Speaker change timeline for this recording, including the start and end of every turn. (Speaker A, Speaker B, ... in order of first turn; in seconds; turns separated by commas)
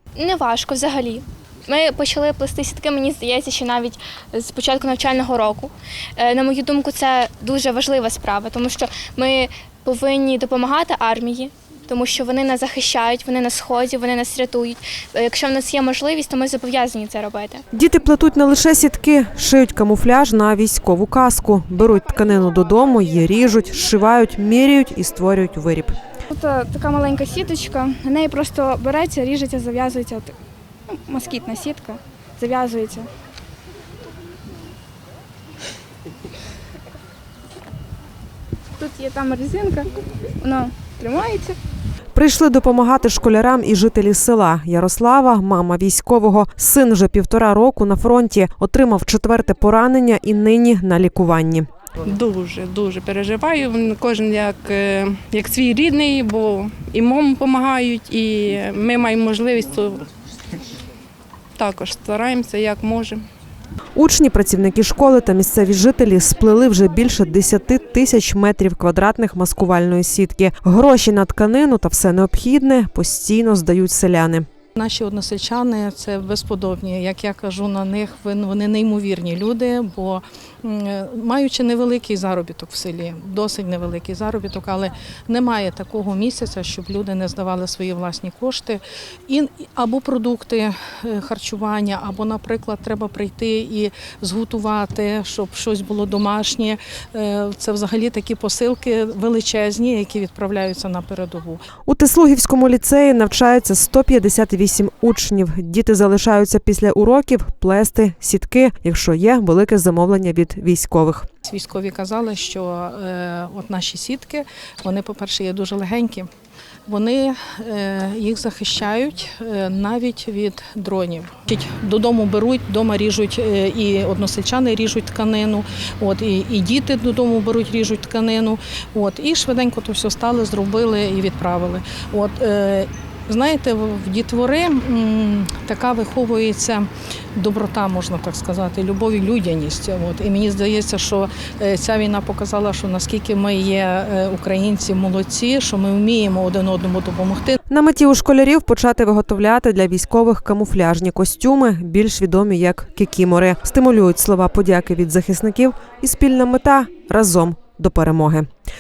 Speaker A: 0.1-17.6, Speaker B: 17.7-25.9, Speaker C: 26.3-30.3, Speaker C: 30.9-33.1, Speaker C: 38.8-41.5, Speaker B: 42.1-51.7, Speaker D: 52.0-60.0, Speaker D: 61.6-63.2, Speaker B: 63.9-74.5, Speaker E: 74.8-101.6, Speaker B: 101.9-111.3, Speaker E: 111.4-116.3, Speaker E: 116.9-147.6, Speaker B: 147.7-158.5